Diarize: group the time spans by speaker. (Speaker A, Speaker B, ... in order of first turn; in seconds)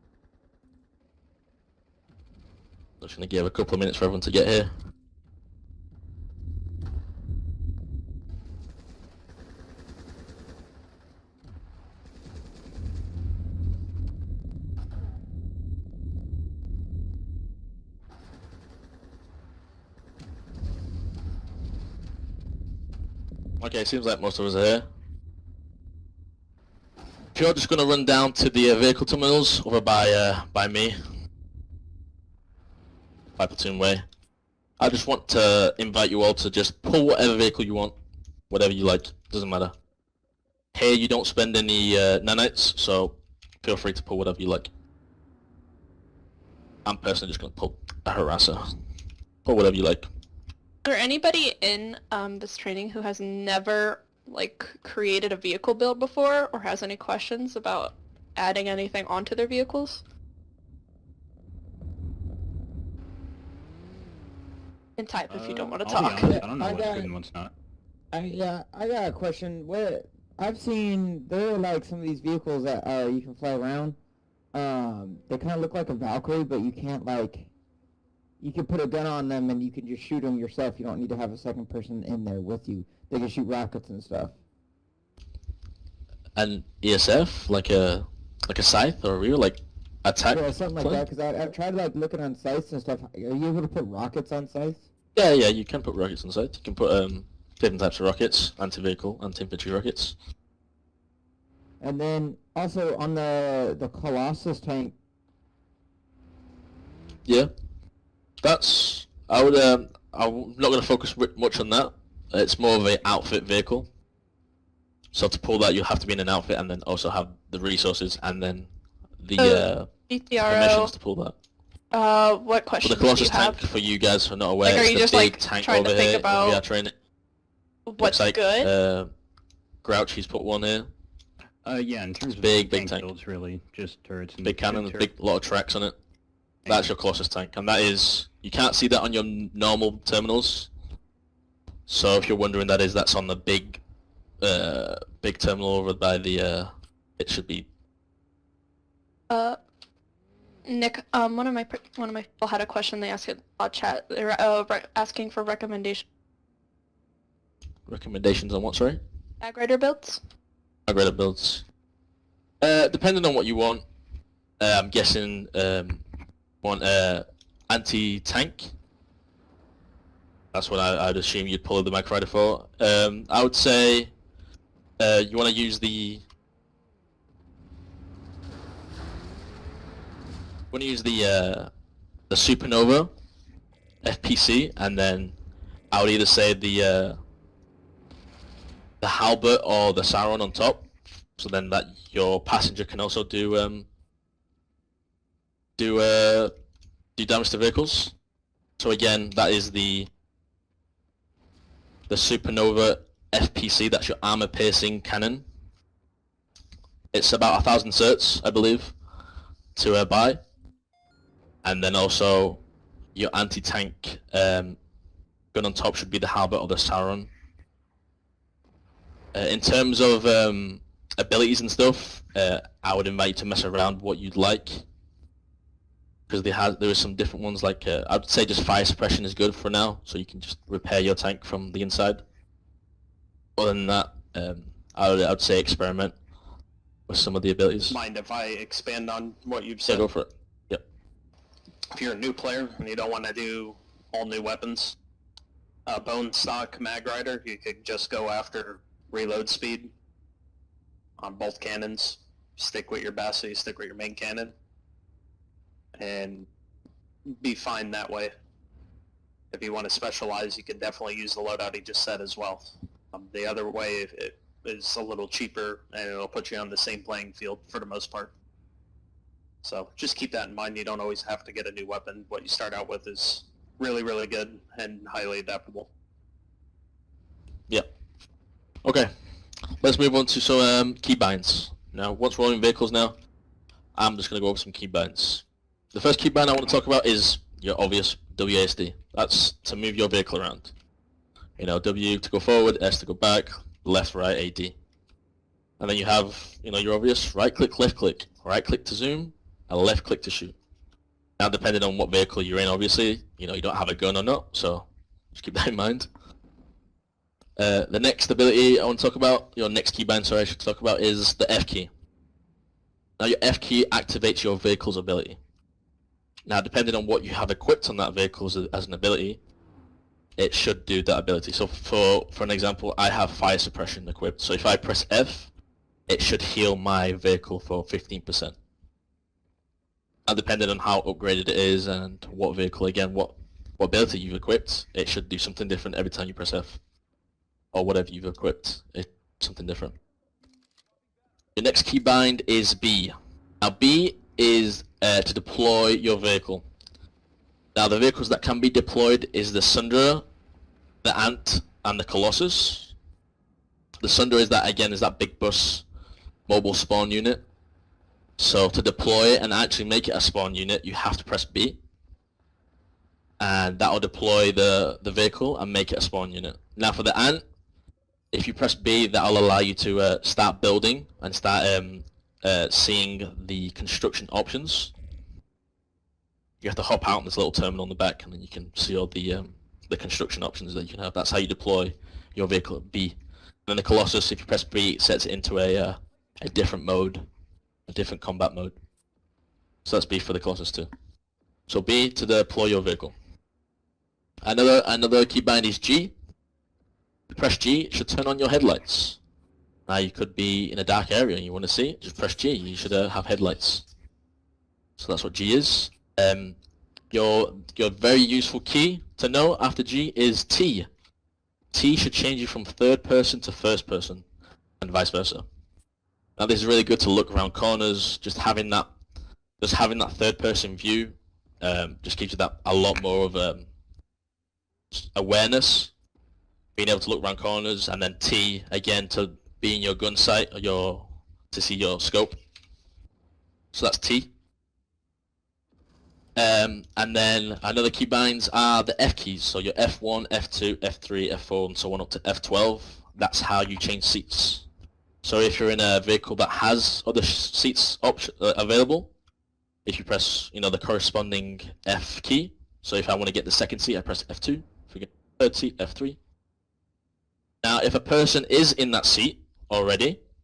Speaker A: 3.0-4.7, 23.6-24.9, 27.3-31.0, 33.4-34.0, 34.8-37.9, 38.5-39.7, 40.7-44.7, 46.9-48.7, 49.5-50.1, 86.4-91.0, 95.2-100.2, 108.4-113.9, 115.1-118.7, 119.2-121.3, 122.8-126.9, 128.0-129.1, 129.8-130.9, 132.2-133.1, 134.4-135.9, 136.7-140.7, 141.9-143.8, 144.4-147.7, 157.9-159.0, 160.9-161.6, 162.6-163.8, 164.6-166.0, 166.6-168.7, 170.5-174.1, 175.0-176.2, 180.7-181.7, 182.3-183.1, 184.0-185.3, 185.9-187.2, 189.0-190.9, 191.4-193.9, 195.8-196.5, 197.2-198.2, 198.8-200.1, 202.1-205.4, 207.1-208.9, 209.8-210.4, 211.6-212.6, 213.2-214.8, 215.5-217.3, 219.3-224.8, 226.3-232.2, 233.6-236.1, 237.1-238.0, 239.9-240.8, 278.8-279.1, 279.8-283.1, 284.0-290.7, 291.6-294.7, 295.8-300.6, 301.4-306.1, 307.6-311.9, 313.2-315.4, 316.5-319.4, 320.4-325.5, 326.1-328.6, 330.3-336.8, 337.7-339.9, 341.6-346.6, 347.8-350.2, 351.0-352.9, 354.0-355.9, 356.5-357.4, 358.4-361.8, 363.4-367.4, 368.3-374.9, 376.6-383.1, 383.7-387.2, 387.9-388.7, 389.9-390.9, 391.7-393.1, 394.4-396.1, 397.3-399.2, 399.9-403.9, 405.0-406.6, 407.1-410.9, 411.7-414.2, 414.8-415.4, 416.4-418.9, 419.6-423.7, 425.0-425.9, 426.8-432.4, 433.7-434.3, 436.4-444.7, 445.2-449.1, 449.9-456.2, 457.6-460.2
Speaker B: 50.9-60.0, 65.0-66.4, 119.4-120.9, 121.9-123.6, 124.6-126.6, 127.9-128.7, 149.3-149.6, 150.7-156.1, 159.4-160.2
Speaker C: 65.3-67.5, 131.6-135.1, 136.7-136.9
Speaker D: 66.2-67.1, 68.1-74.0, 74.5-77.5, 78.4-84.3, 90.3-94.8, 101.8-105.0
Speaker E: 237.9-240.1, 241.9-245.0, 245.9-249.9, 251.2-254.5, 256.0-256.5, 257.4-258.3, 259.5-268.3, 269.6-275.9